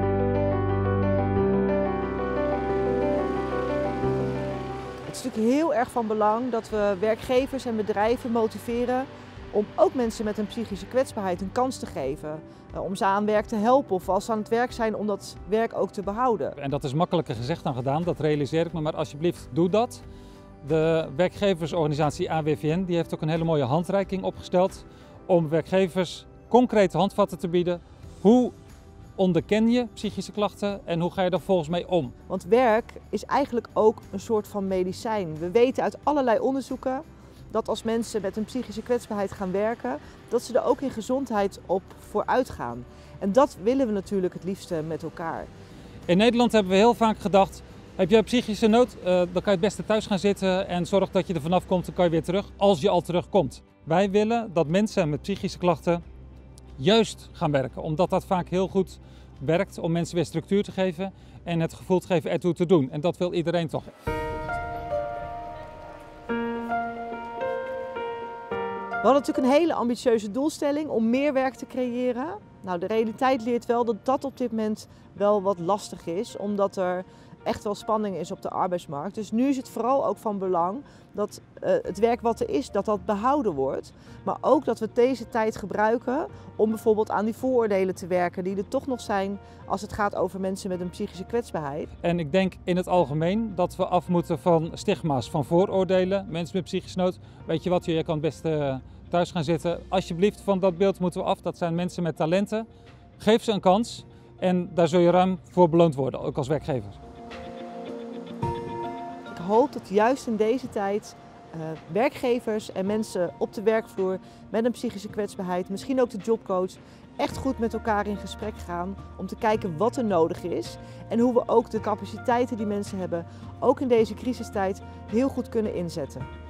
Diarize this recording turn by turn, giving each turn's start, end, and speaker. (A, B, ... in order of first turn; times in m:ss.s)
0:05.1-0:16.6 A
0:16.6-0:20.0 B
0:20.6-0:28.6 B
0:29.2-0:32.1 B
0:32.3-0:45.5 A
0:46.1-0:56.0 B
0:56.8-1:03.9 B
1:09.0-1:31.9 A
1:32.0-1:42.7 B
1:43.2-1:47.0 B
1:49.3-2:06.3 A